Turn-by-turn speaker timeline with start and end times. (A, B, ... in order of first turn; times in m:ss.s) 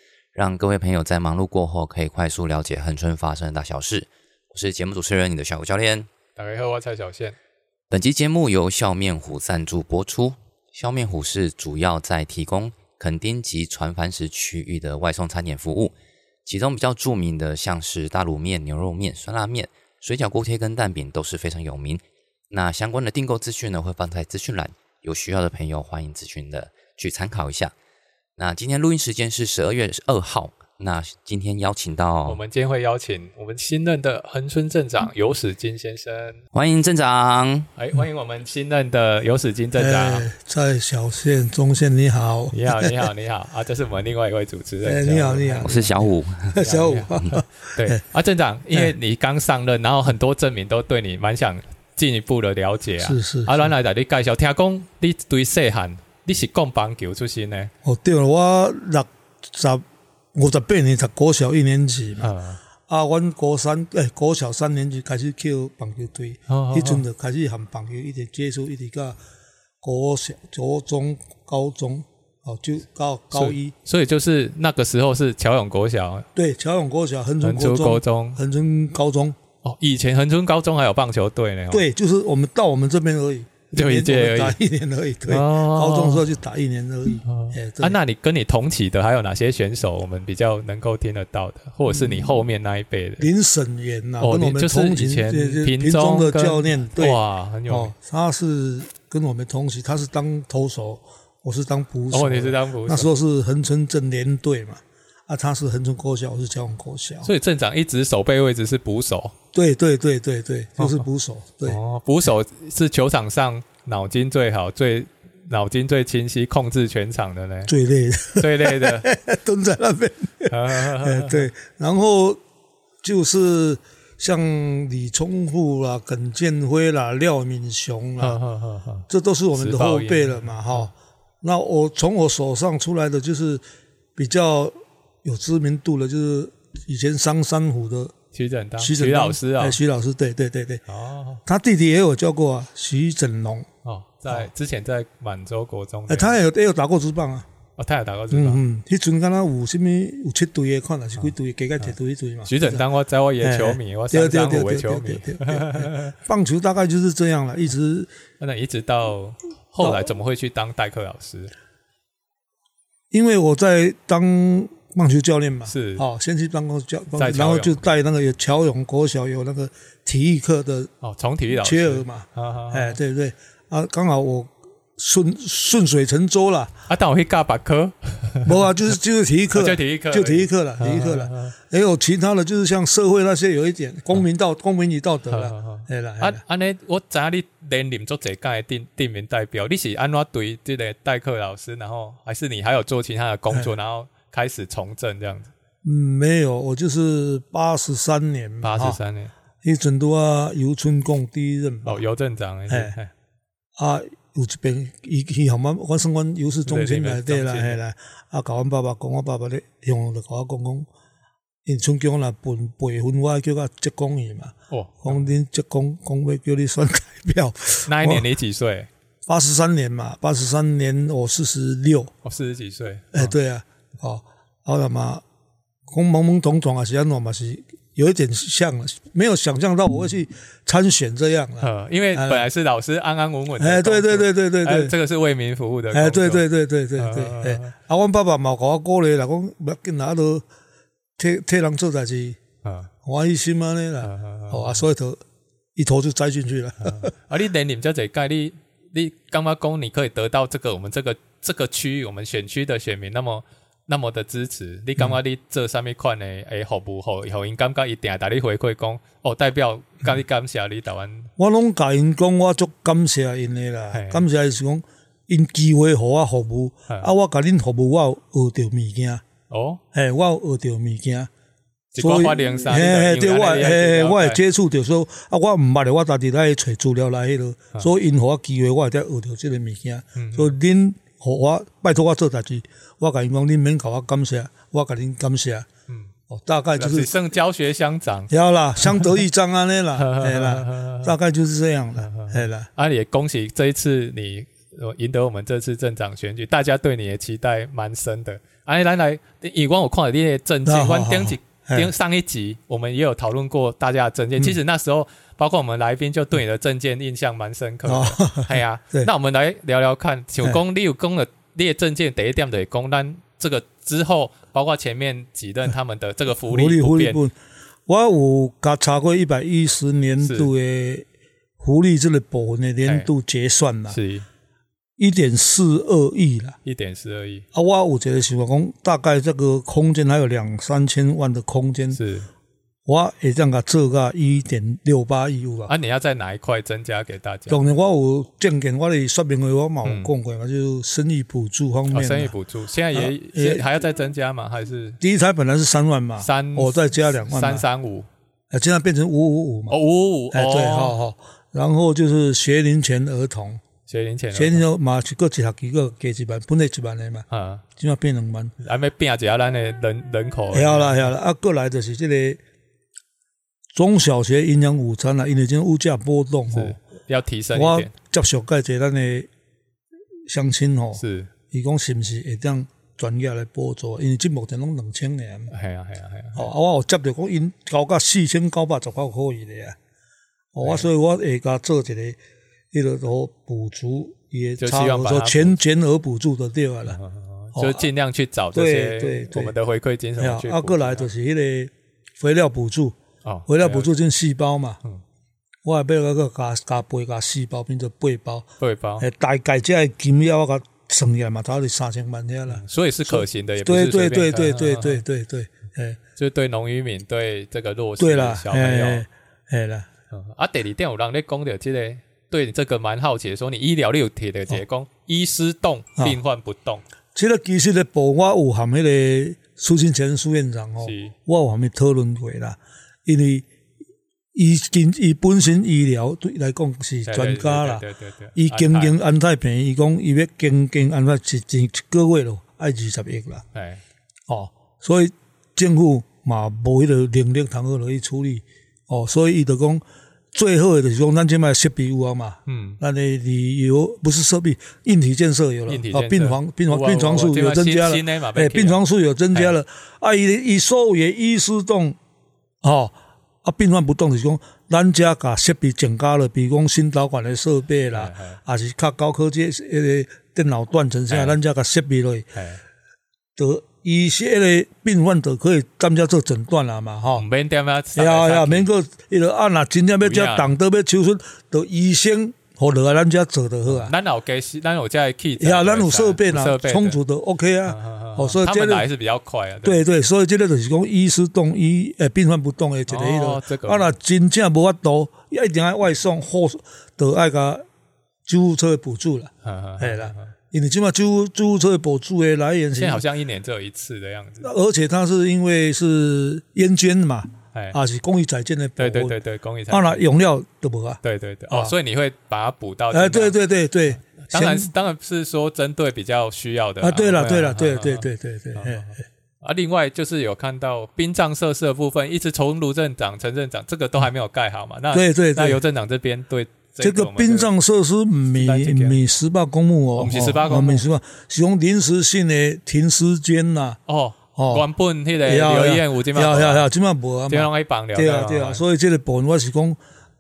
0:00.4-0:06.1 A
0:06.4-0:07.4 B
0:07.9-0:15.9 A
0:16.5-0:27.7 A
0:28.4-0:32.4 A
0:32.3-0:36.4 B
0:36.5-0:37.7 A
0:37.8-0:40.3 B
0:39.8-0:43.0 C
0:42.5-0:45.9 B
0:44.8-0:48.0 C
0:45.5-0:46.6 A
0:46.6-0:57.7 B
0:53.0-0:53.7 C
0:57.8-0:59.8 C
1:00.4-1:02.3 C
1:02.2-1:02.6 B
1:02.9-1:09.2 C
1:06.5-1:07.0 B
1:09.8-1:13.7 C
1:13.3-1:16.3 B
1:16.4-1:19.4 C
1:17.4-1:18.4 B
1:19.6-1:21.8 B
1:21.7-1:28.0 C
1:23.7-1:24.6 B
1:25.3-1:26.2 B
1:27.3-1:33.3 B
1:31.9-1:32.4 C
1:33.2-1:47.3 C
1:34.2-1:37.9 B
1:42.1-1:43.1 B
1:47.2-1:49.3 B
1:49.5-1:51.8 C
1:50.8-1:51.0 B
1:51.7-1:57.7 B
1:57.7-2:02.4 C
1:58.4-1:59.1 B
2:00.5-2:01.5 B
2:03.0-2:08.4 C
2:08.2-2:10.9 B
2:09.1-2:13.6 C
2:14.2-2:18.1 C
2:18.3-2:19.8 B
2:18.8-2:20.8 C
2:20.9-2:21.4 B
2:21.5-2:23.7 C
2:23.8-2:26.4 B
2:26.1-2:27.5 C
2:27.8-2:28.6 B
2:28.3-2:32.8 C
2:32.5-2:36.2 B
2:33.4-2:38.1 C
2:38.4-2:41.5 B
2:39.8-2:40.1 C
2:43.1-2:50.9 C
2:45.7-2:46.0 B
2:47.2-2:47.8 B
2:51.0-2:53.0 B
2:51.5-2:56.7 C
2:56.9-2:58.7 B
2:58.4-3:06.4 C
2:59.5-3:01.6 B
3:05.3-3:15.5 B
3:15.8-3:19.0 C
3:18.6-3:19.3 B
3:19.6-3:22.0 C
3:21.8-3:23.1 B
3:22.7-3:22.9 C
3:23.8-3:30.9 C
3:26.7-3:27.8 B
3:31.6-3:38.2 C
3:34.7-3:35.3 B
3:37.9-3:38.9 B
3:39.3-3:42.1 C
3:42.2-3:43.3 B
3:43.1-3:45.2 C
3:45.9-3:52.5 C
3:51.6-3:56.4 B
3:53.6-3:55.0 C
3:55.9-4:00.4 C
3:57.0-3:57.7 B
4:01.2-4:02.4 C
4:02.6-4:02.9 B
4:03.0-4:05.2 C
4:04.0-4:04.8 B
4:05.8-4:07.1 C
4:06.8-4:21.3 B
4:21.4-4:29.2 C
4:23.9-4:24.2 B
4:29.5-4:29.8 B
4:29.9-4:31.3 C
4:31.9-4:34.4 B
4:32.0-4:45.7 C
4:40.2-4:40.6 B
4:46.3-4:47.2 C
4:46.8-4:48.3 B
4:48.3-4:52.7 C
4:48.8-4:49.2 B
4:50.0-4:51.1 B
4:52.0-5:17.2 B
5:00.7-5:01.9 C
5:07.8-5:09.1 C
5:16.5-5:17.3 C
5:17.9-5:21.1 C
5:20.2-5:20.5 B
5:21.6-5:24.0 C
5:23.9-5:24.3 B
5:25.0-5:26.6 C
5:26.6-5:27.4 B
5:27.5-5:32.0 C
5:31.9-5:32.3 B
5:32.9-5:35.7 C
5:35.7-5:37.6 B
5:37.5-5:42.3 C
5:39.8-5:40.1 B
5:41.9-5:45.0 B
5:42.9-5:43.6 C
5:45.0-5:47.6 C
5:46.2-5:48.1 B
5:48.5-5:49.8 C
5:49.7-5:51.0 B
5:50.3-5:53.6 C
5:53.9-5:54.6 B
5:54.3-5:57.2 C
5:57.3-5:57.6 B
5:57.8-5:58.5 C
5:58.6-6:01.1 B
6:00.5-6:02.4 C
6:03.7-6:06.8 C
6:06.5-6:07.9 B
6:07.5-6:09.3 C
6:10.3-6:15.5 C
6:11.0-6:11.3 B
6:15.5-6:16.5 B
6:16.4-6:19.8 C
6:20.5-6:22.2 C
6:22.7-6:27.0 C
6:24.6-6:25.6 B
6:26.9-6:31.1 B
6:27.6-6:27.9 C
6:28.5-6:29.6 C
6:30.2-6:33.0 C
6:33.2-6:33.9 B
6:33.5-6:34.8 C
6:35.6-6:38.5 C
6:38.6-6:39.1 B
6:39.0-6:46.0 C
6:42.5-6:45.0 B
6:46.2-6:49.0 B
6:48.0-6:49.9 C
6:50.1-6:56.8 B
6:57.2-7:03.5 C
7:00.8-7:01.2 B
7:04.3-7:07.8 C
7:07.1-7:09.0 B
7:08.4-7:13.4 C
7:13.5-7:13.8 B
7:14.3-7:32.0 C
7:22.5-7:22.8 B
7:25.7-7:28.8 B
7:32.6-7:42.3 C
7:37.9-7:38.4 B
7:41.1-7:41.4 B
7:42.4-7:42.6 B
7:43.4-7:47.2 C
7:47.2-7:48.7 B
7:48.0-7:53.9 C
7:50.0-7:50.5 B
7:53.7-7:57.0 B
7:55.4-7:58.9 C
7:57.7-7:59.8 B
7:59.6-8:07.6 C
8:02.9-8:03.9 B
8:08.3-8:13.0 C
8:09.4-8:10.3 B
8:12.8-8:14.5 B
8:14.4-8:19.2 C
8:18.8-8:20.0 B
8:19.7-8:21.8 C
8:21.0-8:23.4 B
8:22.9-8:24.7 C
8:24.2-8:37.5 B
8:26.8-8:28.9 C
8:34.9-8:35.6 C
8:36.8-8:43.8 C
8:38.4-8:39.0 B
8:40.0-8:40.8 B
8:43.9-8:46.7 B
8:44.4-8:44.7 C
8:45.2-8:49.8 C
8:47.3-8:48.6 B